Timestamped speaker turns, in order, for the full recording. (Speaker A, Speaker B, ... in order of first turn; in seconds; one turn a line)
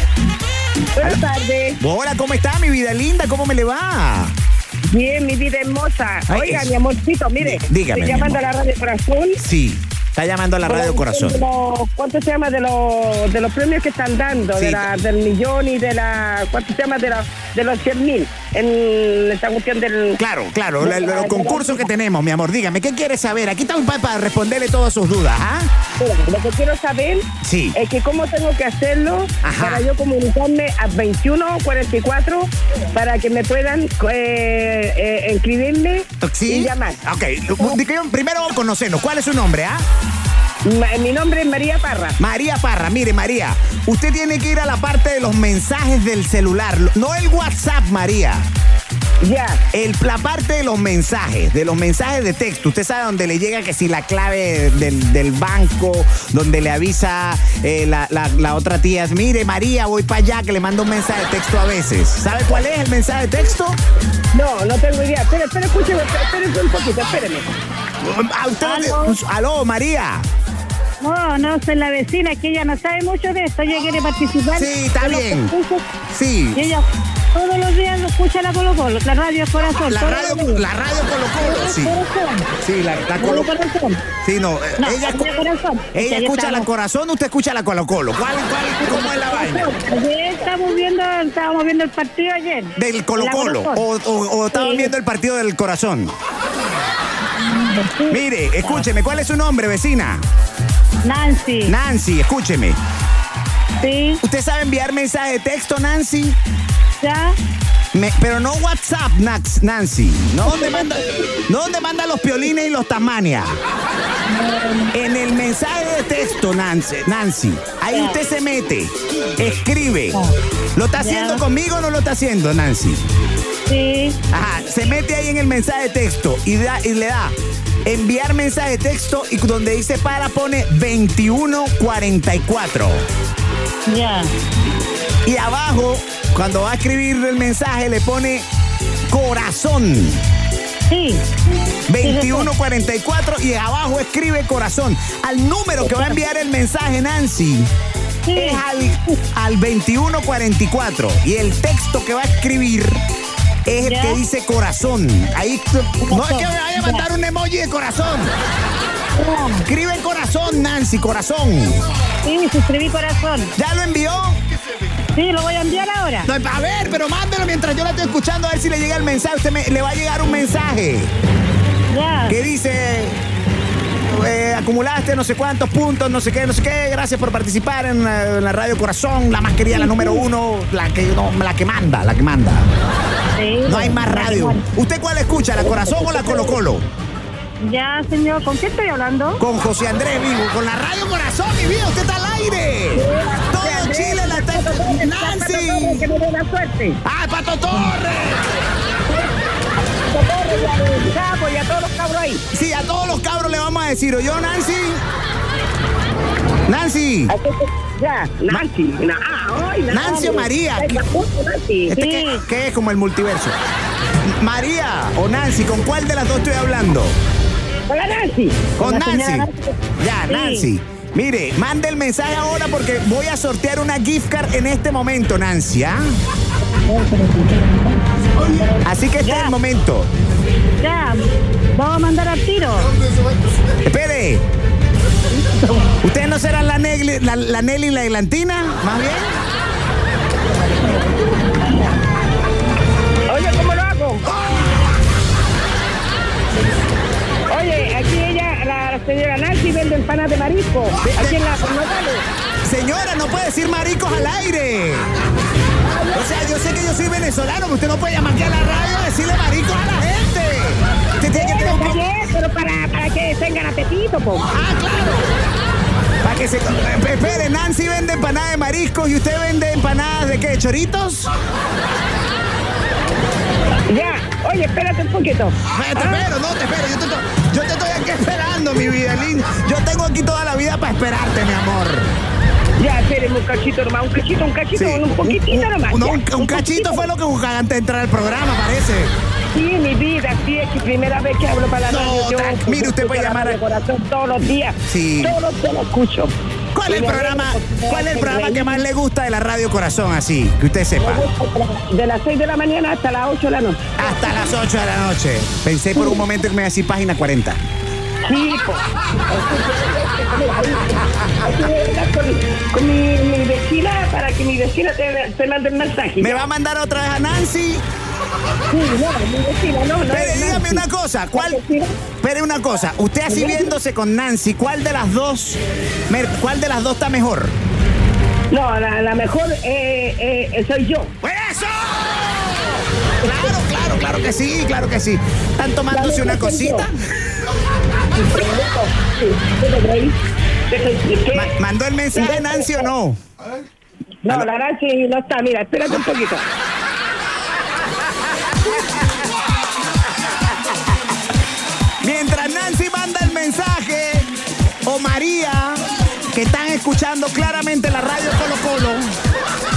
Speaker A: 1.0-1.8
Speaker B: 1.8-4.3
Speaker A: 4.9-9.4
Speaker B: 6.3-6.7
Speaker B: 7.4-8.4
Speaker B: 9.4-11.4
Speaker A: 10.7-20.2
Speaker B: 14.6-14.9
Speaker B: 20.2-25.7
Speaker A: 20.8-21.9
Speaker A: 26.0-37.0
Speaker B: 27.4-27.8
Speaker B: 29.4-29.9
Speaker B: 36.2-39.8
Speaker A: 40.6-42.2
Speaker B: 42.2-48.5
Speaker A: 49.2-49.6
Speaker B: 49.7-63.8
Speaker A: 64.3-67.5
Speaker B: 68.0-70.2
Speaker C: 68.6-69.2
Speaker C: 71.0-75.9
Speaker B: 74.5-75.5
Speaker B: 76.1-76.6
Speaker C: 76.5-80.7
Speaker B: 79.9-82.0
Speaker C: 81.4-82.5
Speaker B: 82.6-83.5
Speaker C: 83.2-84.0
Speaker B: 84.2-85.3
Speaker C: 84.8-86.7
Speaker B: 85.9-89.7
Speaker C: 89.0-93.8
Speaker B: 92.8-96.1
Speaker C: 94.5-94.9
Speaker C: 97.4-98.9
Speaker B: 98.1-100.2
Speaker C: 101.0-101.7
Speaker B: 101.7-102.8
Speaker C: 103.8-104.2
Speaker B: 104.2-106.4
Speaker C: 107.0-107.4
Speaker B: 107.9-113.5
Speaker C: 110.5-111.0
Speaker C: 114.3-114.9
Speaker B: 114.9-120.2
Speaker C: 117.9-118.2
Speaker B: 120.8-123.0
Speaker C: 121.0-121.4
Speaker C: 123.7-124.2
Speaker B: 124.3-127.3
Speaker B: 127.8-133.1
Speaker C: 133.9-134.3
Speaker B: 135.2-138.5
Speaker B: 139.1-140.2
Speaker C: 140.9-141.2
Speaker B: 141.9-147.7
Speaker C: 142.0-142.5
Speaker C: 148.2-148.6
Speaker B: 148.3-153.0
Speaker B: 153.7-158.3
Speaker C: 153.8-154.2
Speaker C: 156.0-157.1
Speaker C: 159.1-159.7
Speaker B: 159.7-161.8
Speaker C: 162.2-163.5
Speaker B: 163.6-164.4
Speaker C: 165.2-166.3
Speaker B: 166.2-171.1
Speaker C: 171.9-172.4
Speaker B: 172.3-173.2
Speaker B: 174.1-182.7
Speaker C: 179.7-180.2
Speaker C: 183.4-184.6
Speaker B: 183.7-186.8
Speaker A: 185.5-186.6
Speaker C: 187.6-189.4
Speaker B: 189.4-196.0
Speaker A: 192.9-197.0
Speaker B: 197.0-198.7
Speaker A: 199.1-199.3
Speaker A: 199.9-202.4
Speaker B: 202.5-205.0
Speaker B: 206.7-207.3
Speaker A: 207.3-212.0
Speaker B: 209.9-211.0
Speaker C: 210.0-210.3
Speaker B: 211.9-213.6
Speaker C: 211.9-212.4
Speaker B: 214.2-217.2
Speaker A: 217.9-218.8
Speaker B: 218.8-219.5
Speaker C: 218.8-219.7
Speaker B: 220.0-226.1
Speaker C: 220.3-220.7
Speaker C: 226.9-227.2
Speaker A: 227.1-227.8
Speaker A: 228.5-228.8
Speaker B: 228.8-230.1
Speaker C: 229.2-229.5
Speaker C: 230.8-232.9
Speaker B: 233.8-234.4
Speaker B: 236.0-239.4
Speaker A: 243.3-244.3
Speaker A: 247.5-252.2
Speaker B: 251.1-251.4
Speaker B: 252.7-255.1
Speaker A: 255.8-256.3
Speaker B: 256.1-262.0
Speaker A: 261.3-264.5
Speaker B: 264.5-265.4
Speaker B: 266.2-271.3
Speaker A: 273.9-276.3
Speaker B: 275.7-282.1
Speaker A: 282.8-287.1
Speaker B: 284.8-289.1
Speaker A: 289.5-296.3
Speaker B: 291.9-293.6
Speaker B: 294.9-295.4
Speaker B: 296.7-301.2
Speaker A: 296.9-298.9
Speaker A: 301.0-304.5
Speaker B: 304.0-307.6
Speaker A: 305.9-306.2
Speaker A: 308.2-316.5
Speaker B: 316.2-317.8
Speaker A: 318.7-321.9
Speaker B: 320.1-321.6
Speaker B: 322.2-325.6
Speaker A: 323.3-323.8
Speaker B: 326.1-327.6
Speaker A: 328.5-331.1
Speaker B: 331.2-336.9
Speaker A: 333.2-333.6
Speaker A: 335.9-336.9
Speaker A: 338.1-340.2
Speaker A: 340.7-341.5
Speaker B: 341.3-343.2
Speaker A: 342.1-342.9
Speaker A: 344.2-346.4
Speaker B: 352.0-354.3
Speaker B: 354.9-359.1